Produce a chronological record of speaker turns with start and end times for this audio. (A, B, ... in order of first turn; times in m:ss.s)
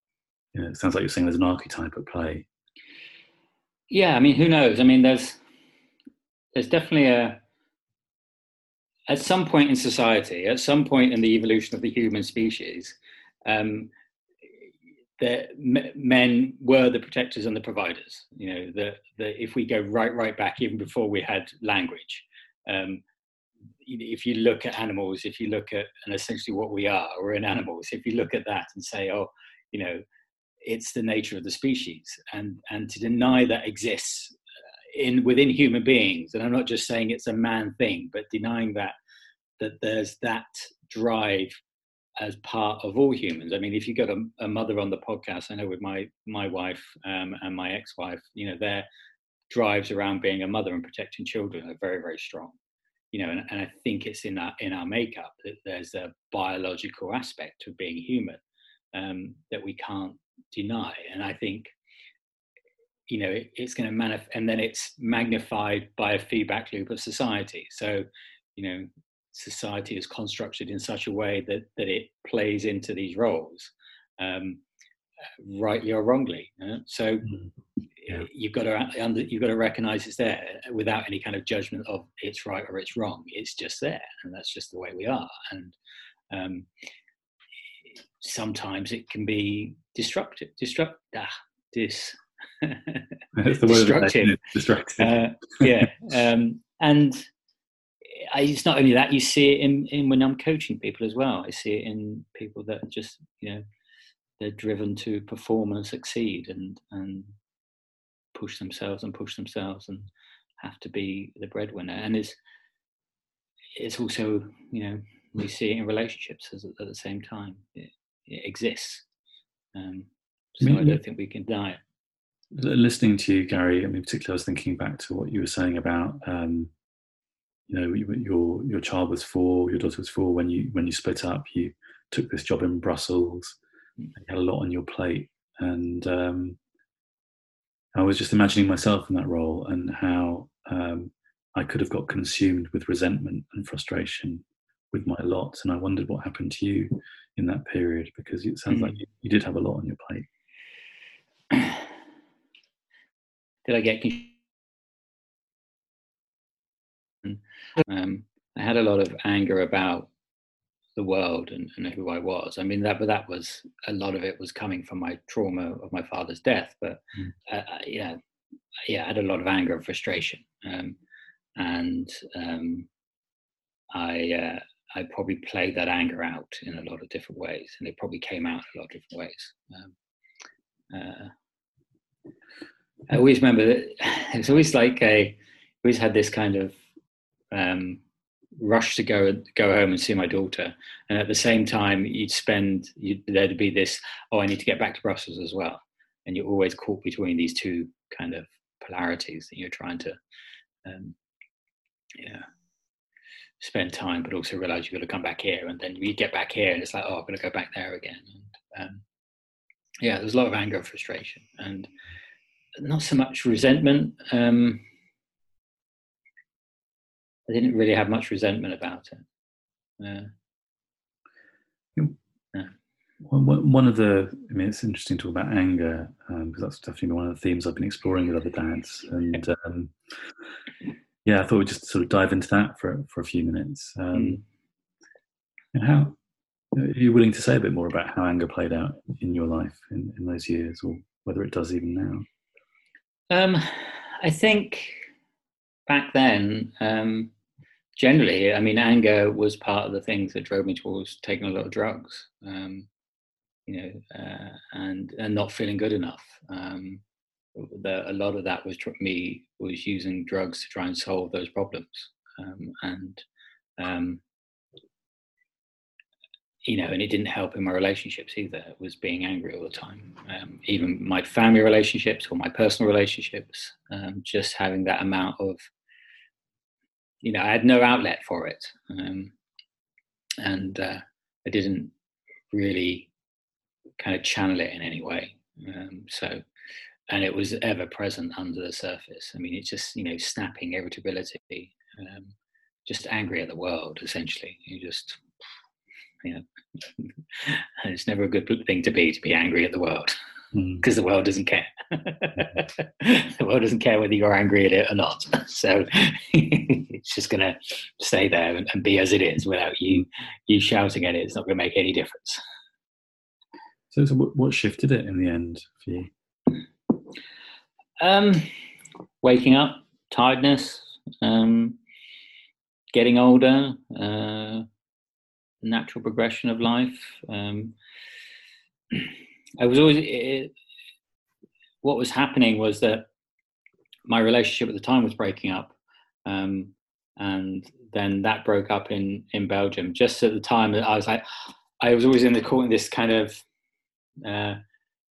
0:00.5-0:02.4 A
0:03.9-0:05.4 B
0:06.5-0:07.4 B
0:09.1-0:13.9 B
0:15.2-0:23.0 B
0:23.8-0:30.0 B
0:30.6-0:34.4 B
0:34.9-0:38.9 B
0:39.6-0:41.6 B
0:42.2-0:48.9 B
0:49.5-0:52.6 B
0:53.1-0:58.4 B
0:58.9-1:01.7 B
1:03.1-1:14.6 B
1:15.4-1:17.3 B
1:18.0-1:25.8 B
1:26.3-1:26.7 B
1:28.2-1:34.4 B
1:33.3-1:35.8 A
1:35.0-1:37.2 B
1:38.2-1:43.6 B
1:44.4-1:47.3 B
1:48.3-1:52.4 B
1:53.8-1:59.0 B
1:59.7-2:01.8 B
2:00.6-2:01.0 A
2:02.5-2:06.7 A
2:07.7-2:13.6 A
2:14.2-2:16.6 A
2:17.9-2:30.2 A
2:28.7-2:29.0 B
2:31.5-2:31.8 B
2:33.6-2:34.4 B
2:37.2-2:40.1 B
2:41.0-2:48.2 B
2:48.9-2:51.0 B
2:51.6-2:52.9 B
2:53.9-2:59.9 B
3:00.9-3:01.3 B
3:03.1-3:06.8 B
3:07.5-3:08.0 B
3:08.6-3:20.2 B
3:20.8-3:21.2 B
3:22.2-3:22.4 B
3:23.6-3:29.0 B
3:30.0-3:31.9 B
3:32.8-3:34.9 B
3:37.5-3:39.2 B
3:40.0-3:40.3 B
3:43.2-3:49.9 A
3:51.2-3:54.4 A
3:54.1-3:54.4 B
3:55.7-3:56.1 A
3:56.7-4:02.2 A
4:03.3-4:05.1 B
4:05.9-4:07.3 B
4:08.0-4:12.9 B
4:13.7-4:17.0 B
4:17.5-4:23.2 B
4:23.8-4:24.2 B
4:26.6-4:35.7 B
4:37.2-4:39.3 B
4:40.4-4:41.9 B
4:42.5-4:43.1 B
4:44.0-4:46.4 B
4:47.1-4:52.3 B
4:52.8-4:55.2 B
4:56.2-5:00.1 B
5:00.5-5:00.8 A
5:00.8-5:12.4 B
5:13.9-5:16.1 A
5:18.0-5:18.5 B
5:19.2-5:21.8 B
5:22.9-5:24.6 B
5:25.6-5:27.7 B
5:28.9-5:30.5 B
5:31.8-5:33.1 B
5:34.1-5:35.7 B
5:36.2-5:43.4 B
5:44.2-5:44.6 B